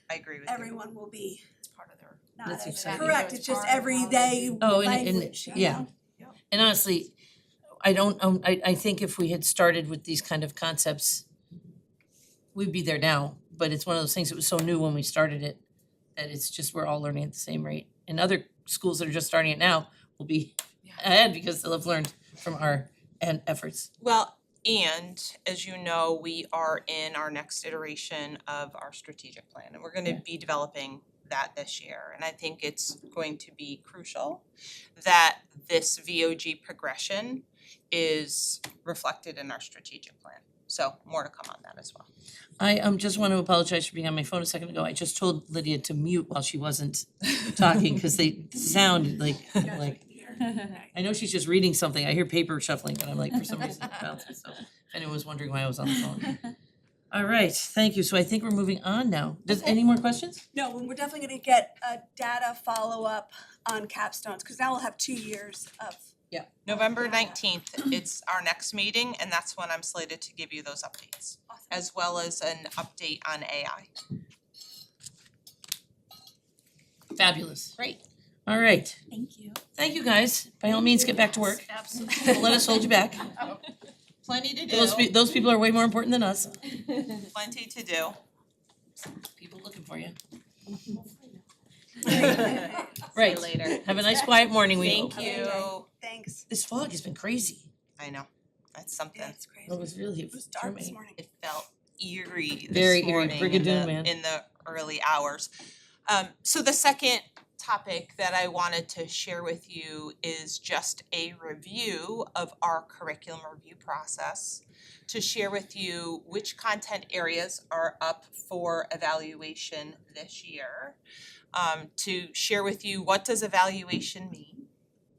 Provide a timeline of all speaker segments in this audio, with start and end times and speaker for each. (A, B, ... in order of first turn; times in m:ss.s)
0:00.1-0:00.7 A
0:00.4-0:01.4 B
0:01.6-0:04.6 C
0:02.4-0:05.9 B
0:02.4-0:03.2 D
0:04.6-0:05.8 D
0:05.5-0:06.3 C
0:06.5-0:07.1 D
0:07.8-0:11.2 D
0:12.5-0:15.6 D
0:16.2-0:23.9 D
0:24.0-0:34.4 A
0:35.0-0:42.1 A
0:42.6-0:50.0 D
0:49.5-0:50.9 B
0:50.9-0:56.4 D
0:57.1-1:00.4 D
1:00.5-1:06.1 B
1:06.6-1:13.9 A
1:06.7-1:07.4 B
1:11.5-1:11.8 B
1:17.1-1:17.8 D
1:18.4-1:19.0 D
1:19.1-1:19.6 B
1:19.8-1:23.4 D
1:22.0-1:22.4 C
1:24.2-1:25.1 A
1:24.7-1:26.6 D
1:27.1-1:28.2 A
1:29.4-1:30.2 D
1:32.0-1:32.8 B
1:32.1-1:33.9 A
1:33.1-1:35.2 D
1:34.7-1:35.9 A
1:34.8-1:36.4 B
1:36.5-1:37.7 D
1:38.0-1:39.4 A
1:39.1-1:41.2 B
1:39.6-1:41.0 D
1:41.2-1:45.5 A
1:42.7-1:44.1 D
1:46.1-2:01.0 A
2:01.5-2:04.7 A